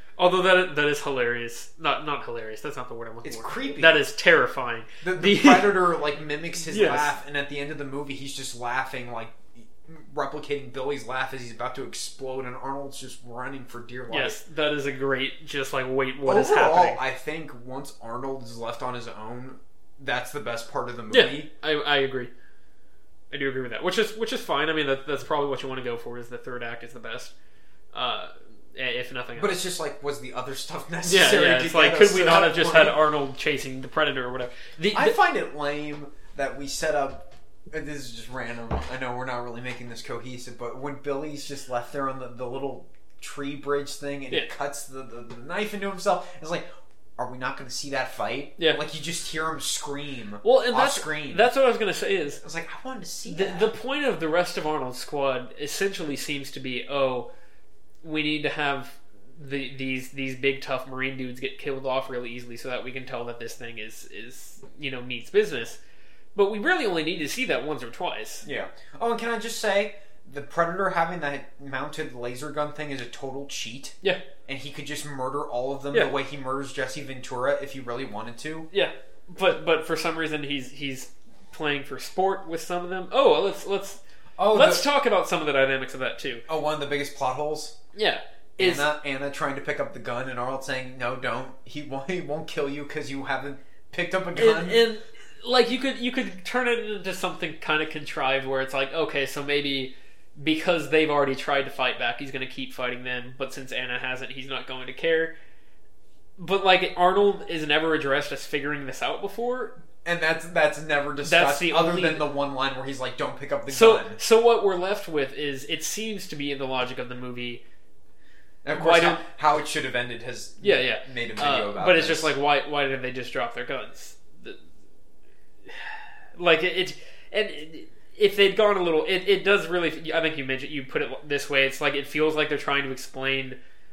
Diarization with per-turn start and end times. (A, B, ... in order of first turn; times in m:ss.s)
0:00.2-0:05.8 A
0:03.2-0:04.0 B
0:05.0-0:14.4 B
0:06.6-0:07.1 A
0:14.1-0:17.0 A
0:16.2-0:21.5 B
0:21.1-0:22.3 A
0:23.3-0:27.3 A
0:27.9-0:29.6 A
0:29.4-0:33.0 B
0:31.0-0:35.2 A
0:34.9-0:46.7 B
0:47.2-0:51.5 B
0:50.4-0:52.4 A
0:52.4-0:53.7 B
0:53.3-0:57.3 A
0:58.0-1:05.8 A
1:06.4-1:08.5 A
1:08.4-1:18.7 B
1:18.7-1:26.4 A
1:24.4-1:24.9 B
1:26.5-1:27.8 B
1:28.0-1:28.9 A
1:28.6-1:34.8 B
1:34.4-1:45.3 A
1:46.4-1:49.8 A
1:50.0-1:54.2 B
1:51.2-1:52.3 A
1:53.7-1:57.6 A
1:58.6-2:02.3 B
1:58.7-1:59.2 A
2:00.6-2:04.6 A
2:05.7-2:13.6 A